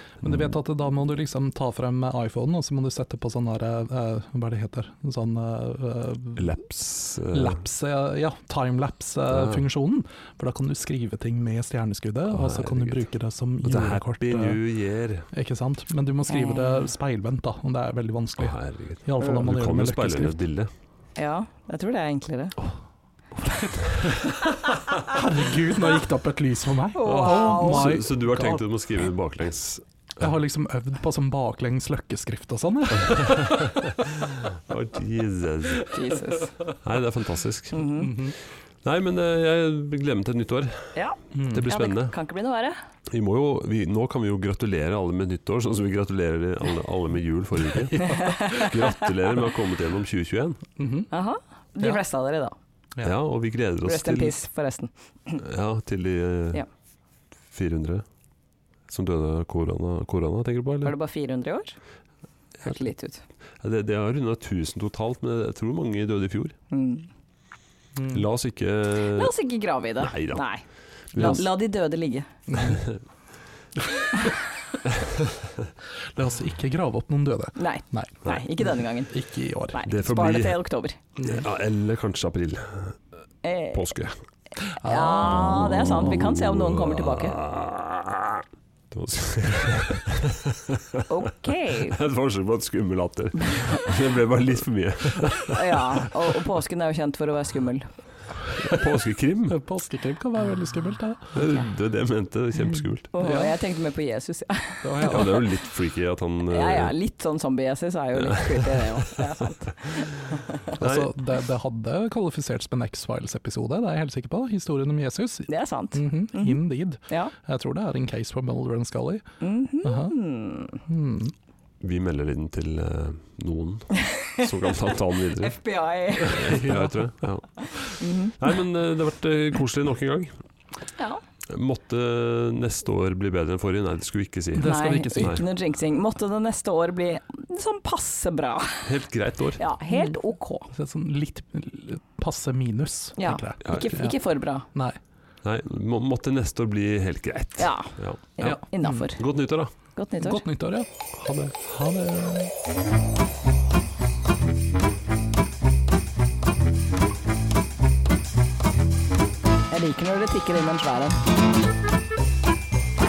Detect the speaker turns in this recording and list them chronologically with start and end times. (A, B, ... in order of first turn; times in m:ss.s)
0:00.2-0:06.5 A
0:06.4-0:07.6 B
0:07.3-0:14.6 A
0:09.3-0:09.6 B
0:12.3-0:13.0 B
0:13.6-0:15.3 B
0:15.3-0:20.4 A
0:16.3-0:16.9 C
0:18.4-0:20.7 B
0:21.2-0:22.6 C
0:23.3-0:24.3 A
0:25.1-0:28.6 A
0:26.9-0:27.9 C
0:27.0-0:30.3 B
0:30.2-0:33.8 A
0:33.2-0:35.9 B
0:35.8-0:36.5 C
0:36.8-0:40.9 B
0:37.7-0:38.1 C
0:38.0-0:38.3 A
0:40.9-0:42.8 C
0:41.3-0:41.6 A
0:41.4-0:42.1 B
0:43.1-0:50.7 B
0:47.9-0:48.6 A
0:48.0-0:48.9 C
0:50.8-0:51.1 A
0:51.1-0:52.6 C
0:53.0-0:54.4 B
0:53.8-0:55.4 C
0:55.4-0:56.6 B
0:57.5-0:58.0 B
0:58.9-1:00.9 B
1:00.8-1:01.8 C
1:02.6-1:03.2 C
1:03.6-1:06.6 B
1:06.7-1:07.1 C
1:08.0-1:08.2 A
1:08.1-1:09.3 B
1:09.0-1:12.3 C
1:10.0-1:10.4 B
1:11.1-1:11.4 B
1:12.5-1:12.8 A
1:12.6-1:13.0 B
1:16.1-1:18.2 A
1:17.6-1:19.1 C
1:19.1-1:19.8 A
1:19.7-1:21.0 C
1:19.8-1:20.6 B
1:21.2-1:23.0 B
1:23.4-1:23.9 C
1:23.7-1:24.1 B
1:24.7-1:27.4 C
1:24.8-1:26.2 A
1:25.3-1:31.0 B
1:31.1-1:32.0 C
1:31.9-1:36.1 B
1:33.5-1:33.8 C
1:35.4-1:37.9 C
1:38.6-1:39.6 B
1:39.5-1:41.4 A
1:41.3-1:43.1 B
1:43.1-1:45.4 C
1:43.2-1:43.6 A
1:44.8-1:45.4 A
1:45.0-1:46.9 B
1:46.5-1:50.7 C
1:48.2-1:49.1 B
1:50.8-1:51.1 B
1:50.8-1:59.2 A
1:55.5-1:57.3 C
1:59.4-2:00.8 C
1:59.8-2:00.2 A
2:00.9-2:01.3 A
2:01.8-2:05.6 B
2:03.9-2:06.7 C
2:06.2-2:10.3 B
2:06.5-2:07.0 A
2:07.6-2:08.4 C
2:11.5-2:15.4 B
2:14.5-2:15.4 A
2:14.6-2:18.9 C
2:18.8-2:19.6 B
2:19.6-2:20.7 C
2:19.9-2:24.2 A
2:23.2-2:24.7 C
2:24.7-2:25.0 A
2:25.4-2:29.7 B
2:27.6-2:29.2 C
2:28.4-2:29.1 A
2:29.9-2:30.4 C
2:30.2-2:30.9 A
2:31.2-2:31.5 B
2:31.6-2:32.5 A
2:39.7-2:41.2 C